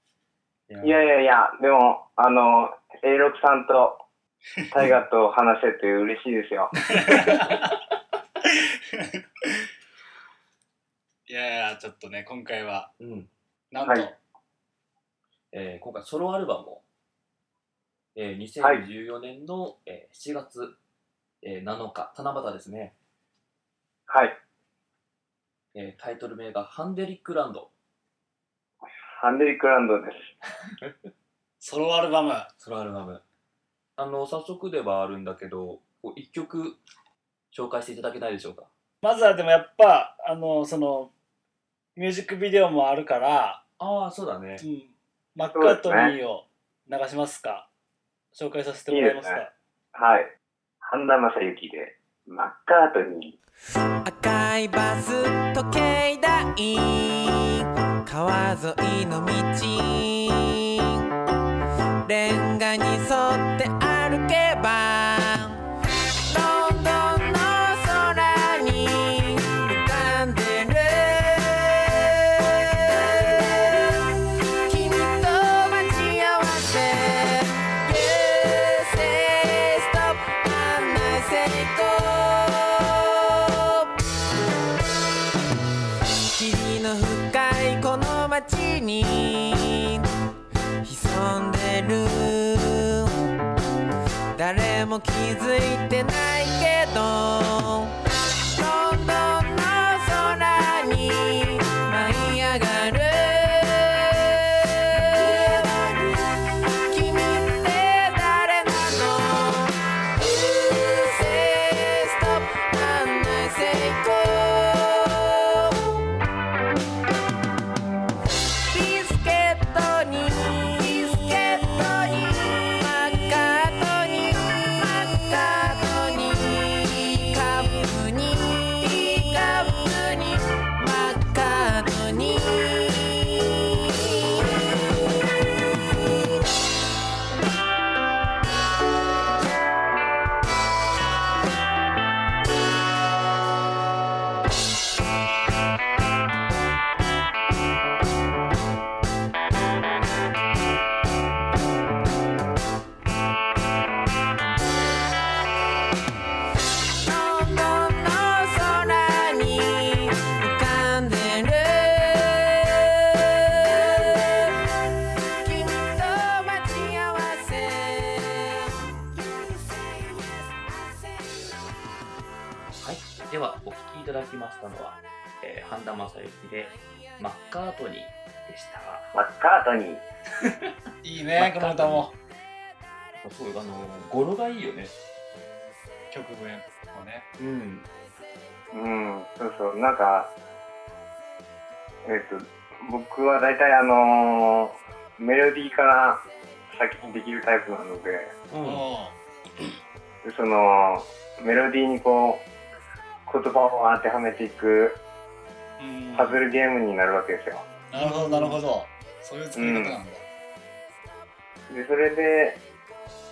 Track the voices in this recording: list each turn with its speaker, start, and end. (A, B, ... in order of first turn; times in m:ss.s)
0:00.7-0:01.0 A
0:00.8-0:04.0 B
0:04.7-0:06.9 B
0:06.9-0:07.7 C
0:08.4-0:09.7 C
0:11.3-0:12.9 C
0:13.0-0:13.3 A
0:13.7-0:14.2 C
0:15.5-0:16.8 A
0:18.1-0:20.8 A
0:21.4-0:22.9 A
0:24.1-0:24.4 B
0:25.7-0:27.7 A
0:29.1-0:30.3 B
0:31.6-0:32.5 C
0:32.6-0:33.2 A
0:34.0-0:36.8 A
0:37.5-0:38.7 A
0:39.0-0:41.1 C
0:42.0-0:43.6 C
0:43.8-0:44.6 A
0:44.6-0:47.7 C
0:45.5-0:46.1 B
0:48.3-0:49.5 C
0:48.9-0:49.4 B
0:49.9-0:53.4 B
0:54.0-1:01.1 D
1:02.0-1:05.6 D
1:06.3-1:23.9 D
1:26.3-1:30.0 D
1:30.8-1:33.2 D
1:34.3-1:38.0 D
1:38.5-1:55.9 D
1:58.7-2:14.6 D
2:37.0-2:51.6 D
2:52.8-2:59.1 A
2:59.1-3:00.0 B
3:00.4-3:00.7 A
3:01.0-3:02.1 C
3:01.3-3:02.1 A
3:03.2-3:04.9 A
3:06.1-3:07.2 C
3:07.4-3:07.9 A
3:08.7-3:10.3 B
3:12.0-3:18.3 B
3:18.5-3:18.8 A
3:18.6-3:19.2 C
3:20.2-3:22.4 B
3:23.2-3:25.0 B
3:25.8-3:26.4 C
3:26.1-3:27.7 B
3:27.9-3:30.2 C
3:28.0-3:28.6 A
3:29.5-3:30.0 B
3:31.7-3:32.6 B